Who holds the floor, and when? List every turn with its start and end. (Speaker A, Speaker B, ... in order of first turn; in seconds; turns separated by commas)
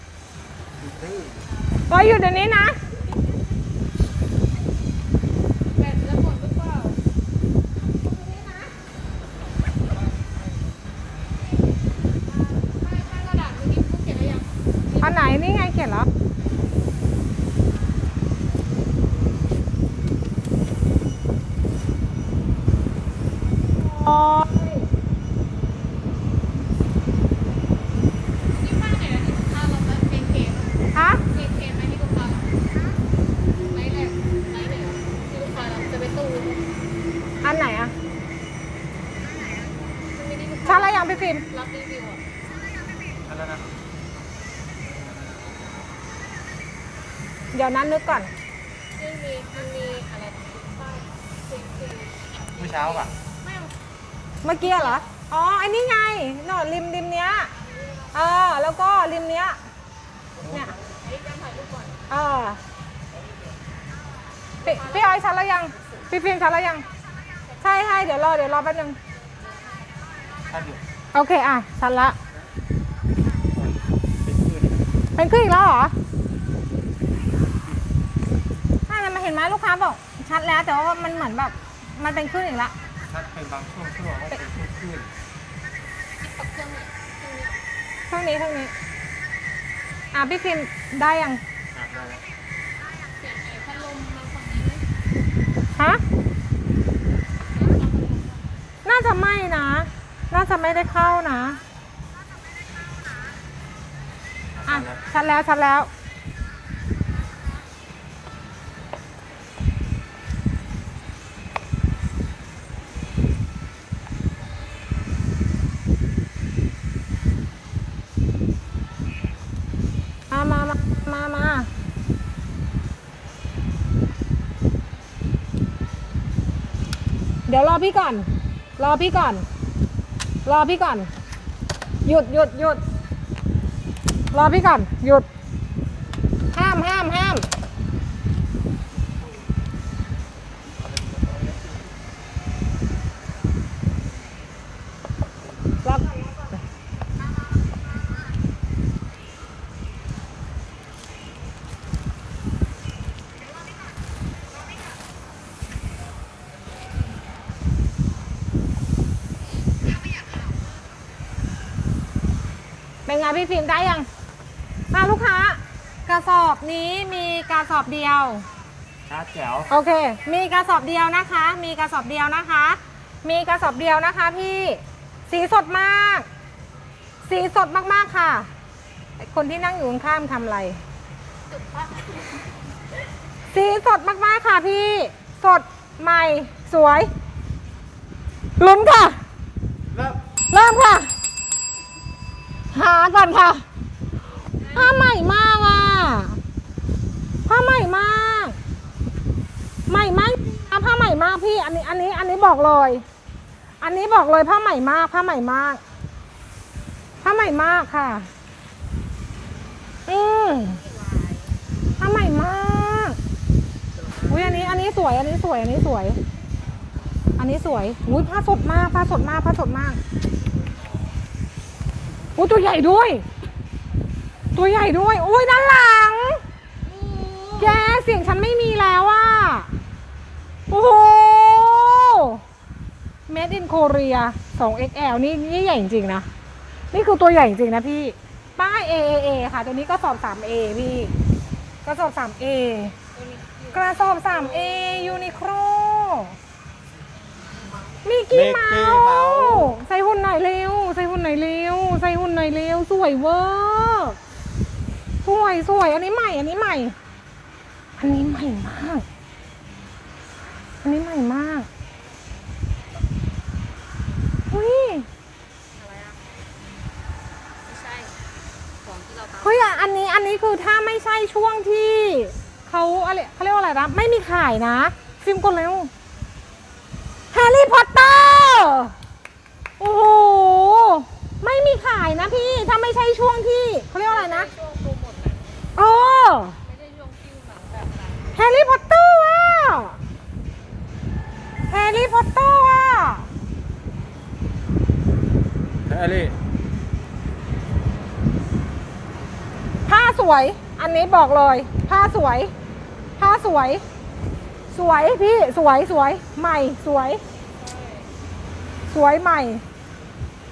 Speaker A: 0.8-1.4, Speaker B: 1.9-2.8, Speaker C: 5.7-7.0, Speaker B: 8.0-8.7, Speaker C: 12.2-15.3, Speaker B: 15.0-16.1, Speaker B: 23.8-24.9, Speaker C: 28.5-32.5, Speaker B: 30.9-31.2, Speaker C: 33.6-36.6, Speaker B: 37.4-37.9, Speaker C: 40.0-42.2, Speaker B: 40.6-41.4, Speaker A: 43.2-43.6, Speaker B: 47.5-48.3, Speaker C: 49.0-53.7, Speaker A: 52.6-53.1, Speaker B: 54.4-57.5, Speaker C: 54.5-55.0, Speaker C: 57.6-58.2, Speaker B: 58.1-59.6, Speaker A: 60.4-60.7, Speaker B: 60.4-60.7, Speaker C: 60.9-62.0, Speaker B: 62.1-62.6, Speaker C: 64.6-65.2, Speaker B: 64.6-66.8, Speaker C: 67.5-68.0, Speaker B: 67.6-69.0, Speaker C: 69.3-70.5, Speaker A: 70.5-70.8, Speaker B: 71.1-72.2, Speaker A: 73.4-74.8, Speaker B: 75.2-75.9, Speaker B: 78.9-82.7, Speaker A: 83.1-85.1, Speaker C: 86.2-87.6, Speaker B: 88.1-88.7, Speaker B: 90.1-91.4, Speaker A: 91.7-92.2, Speaker C: 93.2-94.8, Speaker B: 95.8-96.0, Speaker C: 97.5-98.5, Speaker B: 98.8-101.6, Speaker A: 104.5-105.0, Speaker B: 104.7-105.9, Speaker B: 120.3-121.7, Speaker B: 127.5-129.4, Speaker B: 130.4-131.1, Speaker B: 132.0-132.8, Speaker B: 134.3-135.3, Speaker B: 136.5-137.5, Speaker B: 145.8-146.2, Speaker B: 163.1-164.1, Speaker B: 164.9-168.4, Speaker A: 169.1-169.7, Speaker B: 169.7-176.3, Speaker B: 177.2-178.5, Speaker B: 179.2-180.8, Speaker C: 181.5-182.4, Speaker B: 183.5-187.1, Speaker B: 188.6-189.2, Speaker A: 189.9-190.2, Speaker B: 190.5-191.1, Speaker B: 192.7-193.6, Speaker C: 194.5-195.0, Speaker B: 194.7-196.4, Speaker B: 197.4-198.6, Speaker B: 199.9-203.0, Speaker B: 203.8-205.8, Speaker B: 207.2-208.3, Speaker B: 210.1-210.8, Speaker C: 210.5-211.6, Speaker B: 212.0-213.2, Speaker B: 214.3-216.2, Speaker B: 217.4-220.0, Speaker B: 222.3-223.2, Speaker B: 224.5-226.4, Speaker C: 226.8-227.9, Speaker B: 227.6-229.7, Speaker B: 230.7-232.4, Speaker B: 233.3-236.3, Speaker B: 236.9-241.1, Speaker B: 241.8-242.9, Speaker C: 243.1-245.4, Speaker B: 243.7-246.3, Speaker B: 248.0-254.2, Speaker A: 248.3-249.7, Speaker B: 255.2-256.9, Speaker B: 258.0-259.0, Speaker B: 260.8-261.7, Speaker B: 264.5-265.1, Speaker C: 265.8-266.2, Speaker C: 267.6-268.2, Speaker C: 268.8-269.8, Speaker B: 269.4-275.9, Speaker B: 277.3-278.9, Speaker B: 279.8-284.5, Speaker C: 284.0-285.6, Speaker B: 285.8-286.6, Speaker C: 286.6-288.4, Speaker B: 288.3-289.9, Speaker B: 291.7-293.3, Speaker A: 295.9-296.3, Speaker B: 299.9-302.5, Speaker B: 303.2-303.8, Speaker B: 304.7-307.2, Speaker C: 307.5-308.1, Speaker B: 308.9-309.6